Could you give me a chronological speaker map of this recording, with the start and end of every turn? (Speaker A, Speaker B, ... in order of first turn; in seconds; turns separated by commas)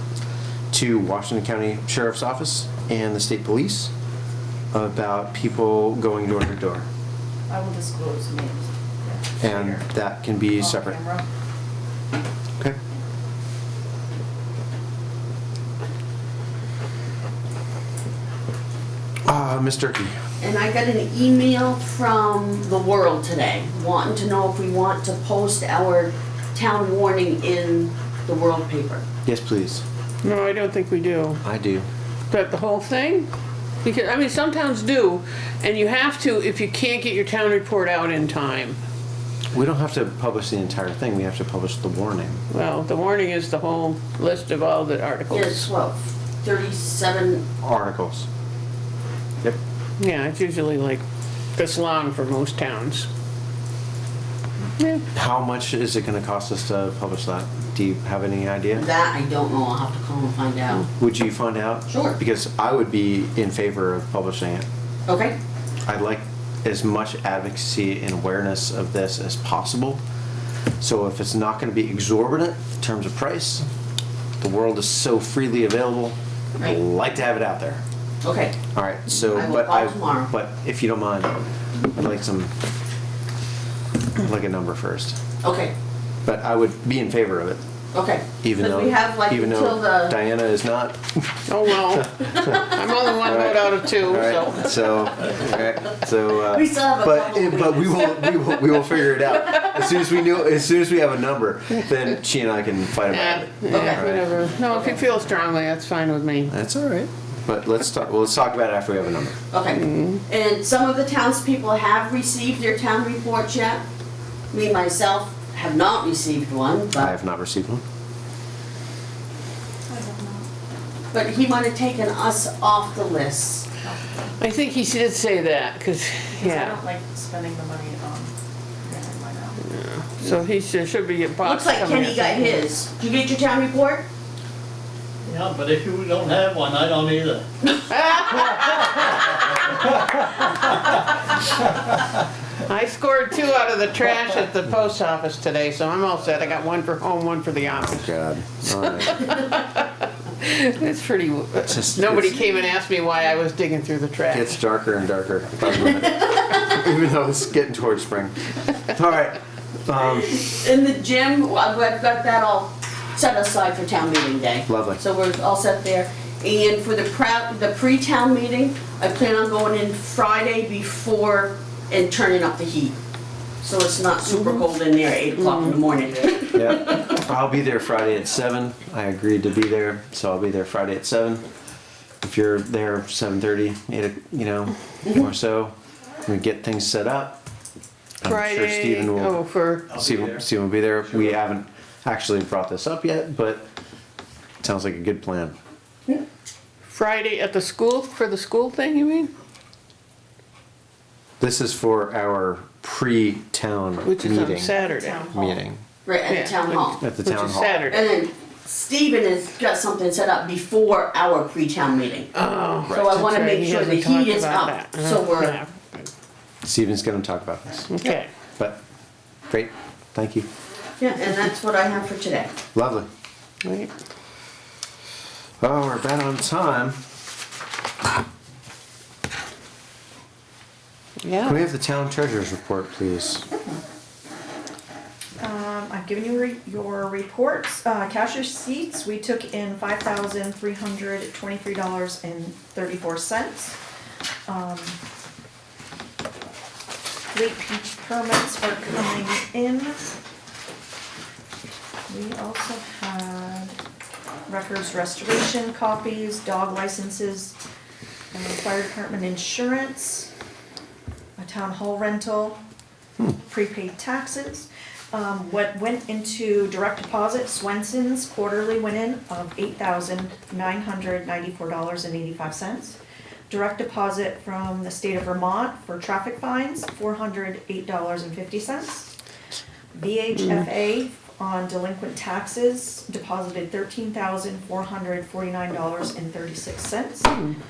Speaker A: 0.7-3.9, Speaker A: 4.7-6.9, Speaker B: 7.5-9.9, Speaker A: 9.4-11.0, Speaker B: 10.6-11.2, Speaker A: 19.2-20.2, Speaker C: 20.4-29.1, Speaker A: 29.3-29.8, Speaker D: 30.2-31.4, Speaker A: 31.4-31.9, Speaker D: 32.3-33.3, Speaker D: 33.8-38.8, Speaker A: 39.5-42.4, Speaker D: 42.5-45.7, Speaker C: 45.3-47.5, Speaker A: 47.6-48.3, Speaker D: 50.0-51.0, Speaker D: 51.5-53.1, Speaker D: 54.8-55.0, Speaker A: 55.1-58.9, Speaker C: 58.8-60.9, Speaker A: 61.0-64.7, Speaker C: 61.9-62.2, Speaker C: 65.1-65.4, Speaker A: 65.8-70.0, Speaker A: 70.8-73.7, Speaker A: 74.4-77.8, Speaker C: 78.2-78.6, Speaker A: 78.7-82.5, Speaker C: 79.3-80.3, Speaker A: 84.2-85.2, Speaker C: 85.4-85.7, Speaker A: 86.3-87.6, Speaker C: 87.9-90.2, Speaker A: 88.4-92.3, Speaker D: 91.5-95.1, Speaker A: 93.2-104.3, Speaker C: 96.3-98.3, Speaker D: 103.1-106.5, Speaker C: 103.7-105.1, Speaker A: 106.5-109.4, Speaker C: 109.5-113.8, Speaker D: 109.8-110.2, Speaker C: 114.5-117.1, Speaker A: 117.0-117.8, Speaker B: 119.9-120.5, Speaker C: 121.1-123.7, Speaker B: 123.8-124.4, Speaker D: 124.4-126.8, Speaker B: 126.3-128.3, Speaker B: 128.8-129.7, Speaker D: 129.7-132.7, Speaker C: 131.4-134.1, Speaker E: 135.3-137.4, Speaker D: 137.9-139.4, Speaker D: 142.7-154.6, Speaker A: 147.8-149.3, Speaker A: 151.7-152.4, Speaker A: 154.3-160.4, Speaker C: 160.1-172.9, Speaker A: 164.7-165.0, Speaker C: 173.6-177.1, Speaker D: 174.3-174.6, Speaker D: 175.3-175.8, Speaker A: 176.5-181.5, Speaker A: 182.2-185.8, Speaker A: 186.3-187.4, Speaker A: 188.2-193.7, Speaker D: 188.2-190.0, Speaker A: 194.6-195.6, Speaker D: 196.9-199.3, Speaker A: 201.4-204.7, Speaker D: 204.0-205.2, Speaker B: 204.7-205.6, Speaker A: 205.3-205.8, Speaker C: 206.1-207.0, Speaker D: 206.2-208.1, Speaker A: 207.0-207.9, Speaker C: 207.9-212.3, Speaker D: 212.3-216.1, Speaker A: 212.9-213.2, Speaker C: 212.9-215.6, Speaker A: 216.6-217.9, Speaker D: 217.9-218.3, Speaker A: 219.5-220.5, Speaker C: 221.0-222.5, Speaker A: 222.7-223.1, Speaker D: 223.6-223.9, Speaker A: 225.6-227.0, Speaker D: 231.2-231.6, Speaker A: 231.4-233.4, Speaker B: 235.4-243.8, Speaker B: 244.5-245.0, Speaker B: 247.3-250.2, Speaker B: 252.1-253.8, Speaker B: 254.5-257.6, Speaker B: 258.3-260.3, Speaker B: 261.4-262.6, Speaker B: 263.3-273.0, Speaker B: 273.5-279.1, Speaker B: 279.9-287.4, Speaker D: 287.3-287.6